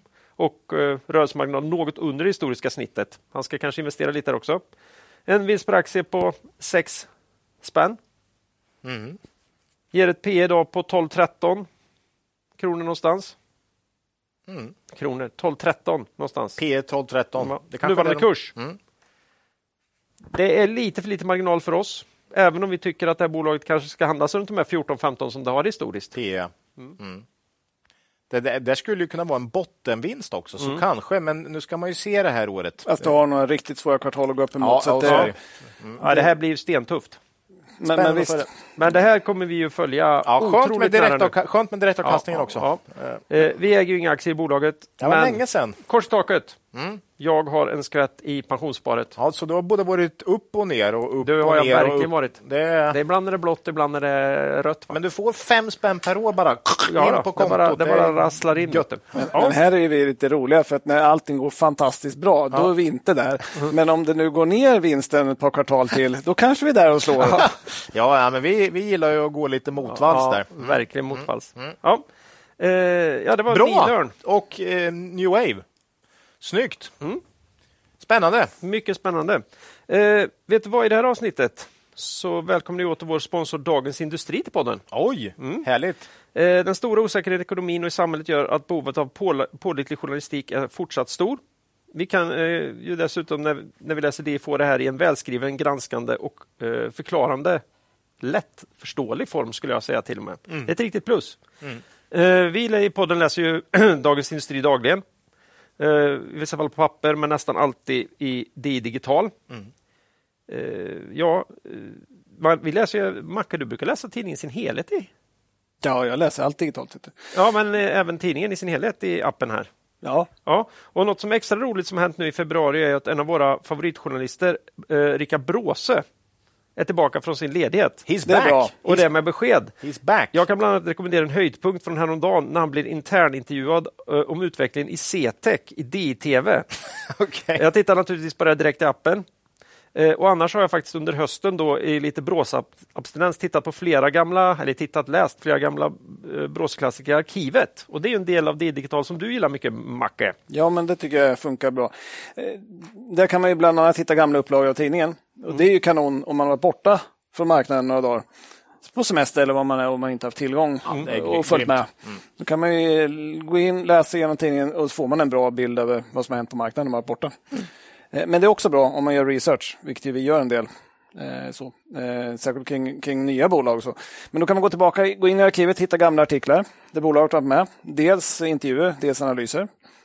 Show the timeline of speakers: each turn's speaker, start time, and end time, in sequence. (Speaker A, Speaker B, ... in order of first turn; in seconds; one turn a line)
Speaker A: 0.4-4.6
Speaker A: 5.3-7.1
Speaker A: 7.6-8.0
Speaker B: 8.8-9.2
Speaker A: 9.9-11.7
Speaker A: 12.6-13.4
Speaker B: 14.5-14.7
Speaker A: 14.9-16.6
Speaker B: 16.6-18.8
Speaker A: 17.4-18.5
Speaker A: 20.3-26.2
Speaker B: 26.1-27.2
Speaker B: 28.3-33.1
Speaker C: 32.9-35.3
Speaker B: 34.6-36.0
Speaker A: 35.0-35.3
Speaker A: 36.0-37.2
Speaker C: 37.8-38.5
Speaker B: 37.9-38.5
Speaker A: 38.8-41.3
Speaker B: 40.2-43.2
Speaker A: 42.0-46.6
Speaker B: 45.0-45.8
Speaker B: 46.7-47.0
Speaker A: 47.2-49.1
Speaker B: 49.2-53.0
Speaker A: 51.2-55.0
Speaker B: 54.9-58.9
Speaker A: 56.9-59.6
Speaker C: 59.2-67.5
Speaker B: 67.2-71.7
Speaker A: 70.0-72.0
Speaker A: 72.6-74.1
Speaker B: 73.5-75.7
Speaker B: 76.4-76.9
Speaker B: 78.0-78.5
Speaker A: 78.6-84.8
Speaker B: 84.9-86.0
Speaker A: 85.4-85.7
Speaker A: 86.3-91.4
Speaker A: 91.9-97.6
Speaker A: 98.2-101.4
Speaker A: 102.1-105.0
Speaker A: 105.8-109.3
Speaker A: 110.5-115.1
Speaker C: 115.8-117.2
Speaker A: 117.3-119.7
Speaker C: 120.0-120.3
Speaker A: 120.5-126.0
Speaker A: 126.8-128.1
Speaker B: 128.1-129.1
Speaker C: 128.3-128.7
Speaker A: 128.8-129.7
Speaker B: 129.8-130.4
Speaker A: 130.3-136.7
Speaker B: 137.0-137.6
Speaker A: 137.6-139.2
Speaker A: 139.9-150.4
Speaker C: 150.5-158.2
Speaker C: 158.8-167.4
Speaker B: 160.9-161.8
Speaker C: 168.1-179.7